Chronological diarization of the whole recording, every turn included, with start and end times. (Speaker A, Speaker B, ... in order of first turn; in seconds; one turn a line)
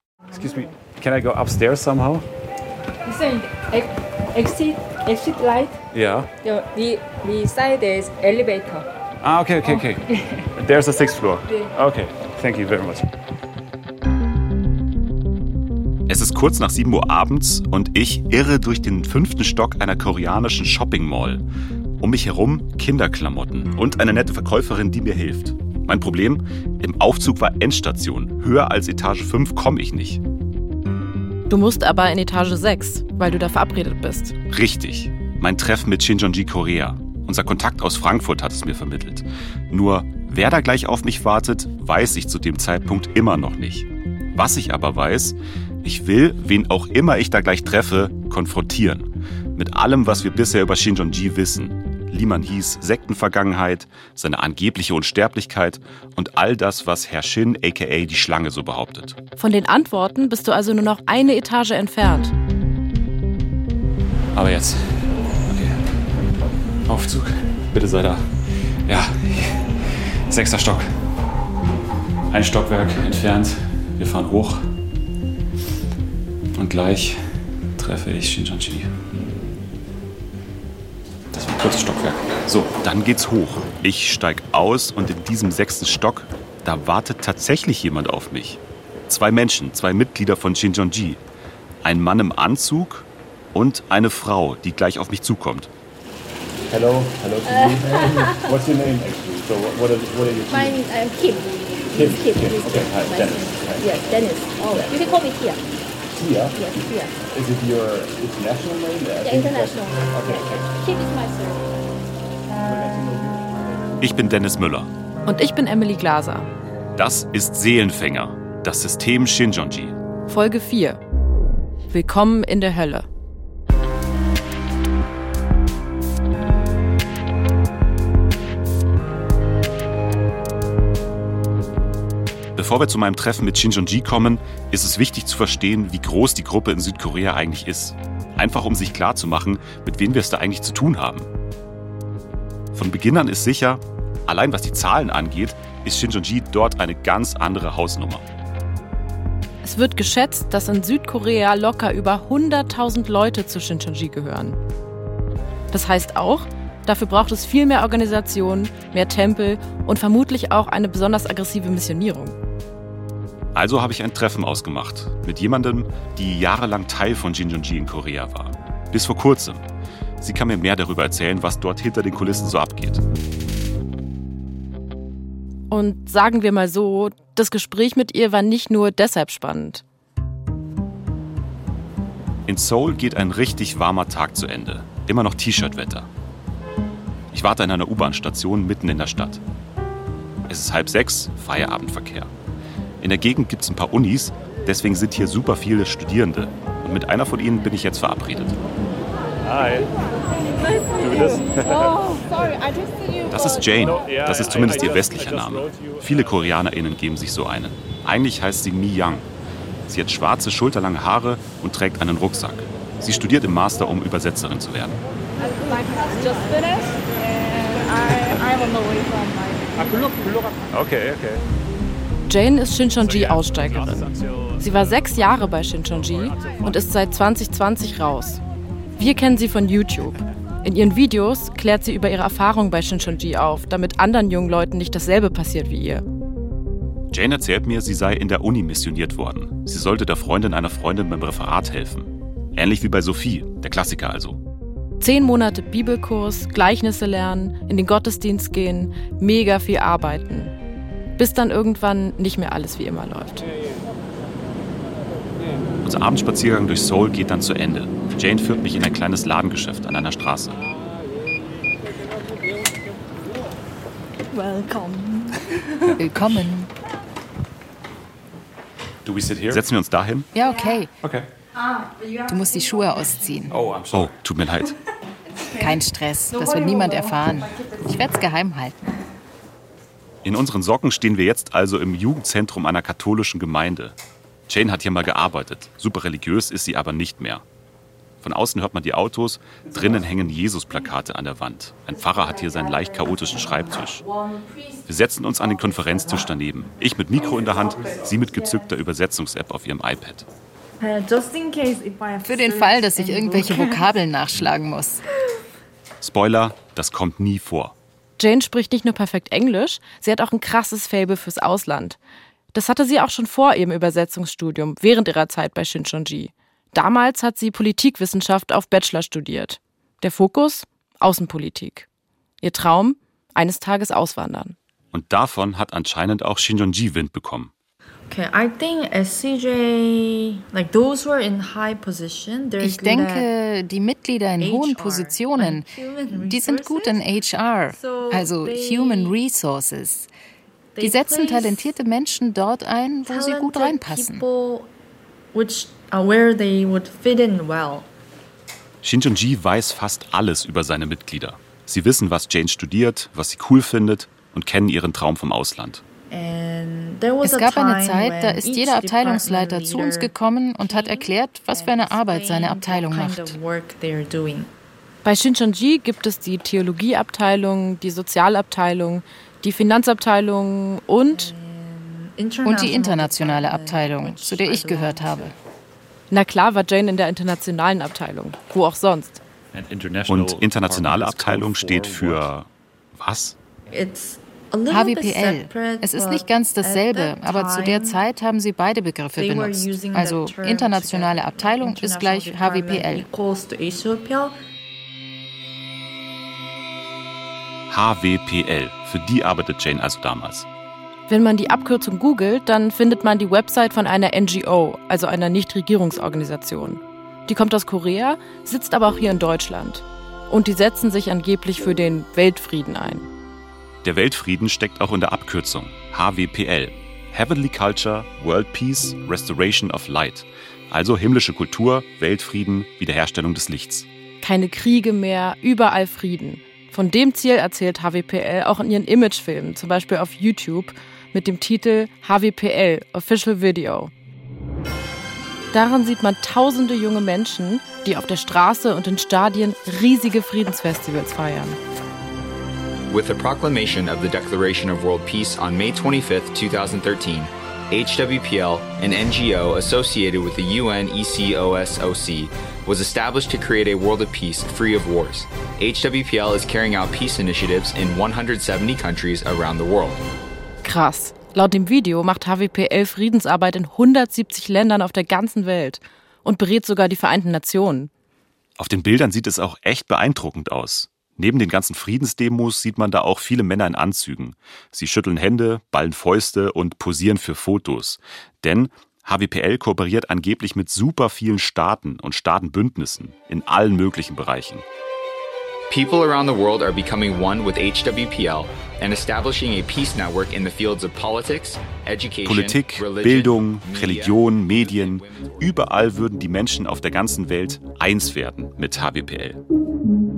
Speaker A: 0.3-2.2
Speaker B: 3.0-5.8
Speaker A: 5.9-6.3
Speaker B: 6.4-8.8
Speaker A: 9.2-13.1
Speaker B: 9.6-10.2
Speaker C: 16.1-21.4
Speaker C: 22.0-30.2
Speaker D: 31.5-34.3
Speaker C: 34.5-59.1
Speaker D: 59.4-62.3
Speaker C: 64.3-64.8
Speaker C: 65.5-65.8
Speaker C: 66.9-68.3
Speaker C: 68.9-69.7
Speaker C: 70.3-70.8
Speaker C: 72.3-74.6
Speaker C: 76.5-77.2
Speaker C: 77.8-78.9
Speaker C: 81.3-91.2
Speaker C: 91.8-95.7
Speaker A: 96.7-100.8
Speaker B: 97.4-98.5
Speaker B: 100.5-105.6
Speaker A: 101.9-104.2
Speaker A: 106.1-106.6
Speaker B: 106.5-107.1
Speaker A: 107.2-110.8
Speaker B: 109.2-112.0
Speaker A: 112.6-113.6
Speaker C: 114.0-114.9
Speaker D: 115.2-116.5
Speaker C: 117.0-119.9
Speaker D: 120.3-121.0
Speaker D: 121.9-123.0
Speaker C: 132.6-141.3
Speaker C: 142.7-148.2
Speaker D: 149.6-154.6
Speaker D: 155.7-162.3
Speaker C: 163.5-169.6
Speaker C: 170.2-173.0
Speaker D: 175.7-179.8
Speaker C: 182.5-186.1
Speaker C: 187.3-189.4
Speaker C: 190.5-192.3
Speaker C: 193.0-198.6
Speaker A: 199.4-199.9
Speaker A: 200.9-202.2
Speaker B: 202.2-203.2
Speaker C: 203.3-209.3
Speaker A: 203.7-206.1
Speaker C: 209.9-215.0
Speaker B: 215.5-219.9
Speaker A: 219.8-221.4
Speaker D: 222.3-228.4
Speaker A: 223.0-224.6
Speaker D: 229.0-236.0
Speaker C: 237.1-244.4
Speaker D: 245.0-250.5
Speaker D: 251.2-253.4
Speaker C: 255.8-260.6
Speaker E: 264.3-265.2
Speaker F: 265.9-266.7
Speaker A: 269.0-269.6
Speaker C: 269.5-270.3
Speaker F: 270.3-270.9
Speaker A: 271.0-271.3
Speaker B: 271.6-273.0
Speaker F: 272.2-273.6
Speaker A: 273.5-274.1
Speaker C: 273.9-274.7
Speaker F: 275.5-278.9
Speaker B: 276.4-277.0
Speaker C: 280.2-283.9
Speaker C: 284.5-287.4
Speaker C: 288.2-294.0
Speaker C: 294.9-300.2
Speaker A: 297.1-298.2
Speaker E: 300.8-303.9
Speaker F: 302.2-305.0
Speaker C: 306.0-307.7
Speaker D: 308.2-312.0
Speaker D: 312.5-321.9
Speaker D: 322.4-324.6
Speaker C: 324.9-327.5
Speaker E: 328.1-333.3
Speaker F: 332.6-340.1
Speaker E: 334.4-337.0
Speaker E: 337.7-339.1
Speaker E: 340.7-341.7
Speaker F: 340.8-344.2
Speaker E: 343.1-344.7
Speaker E: 345.3-347.9
Speaker C: 348.8-355.8
Speaker E: 356.1-364.5
Speaker F: 357.2-363.4
Speaker D: 365.0-371.3
Speaker E: 371.1-375.3
Speaker F: 372.4-375.3
Speaker D: 376.1-379.2
Speaker A: 379.5-382.3
Speaker C: 380.1-383.4
Speaker E: 383.7-388.0
Speaker F: 384.7-393.1
Speaker E: 389.1-394.4
Speaker C: 397.7-400.5
Speaker D: 401.1-413.1
Speaker C: 413.8-423.9
Speaker D: 424.2-433.9
Speaker D: 435.5-441.6
Speaker G: 442.9-460.0
Speaker D: 460.6-467.9
Speaker C: 468.6-484.6
Speaker G: 485.7-495.6
Speaker C: 492.2-499.4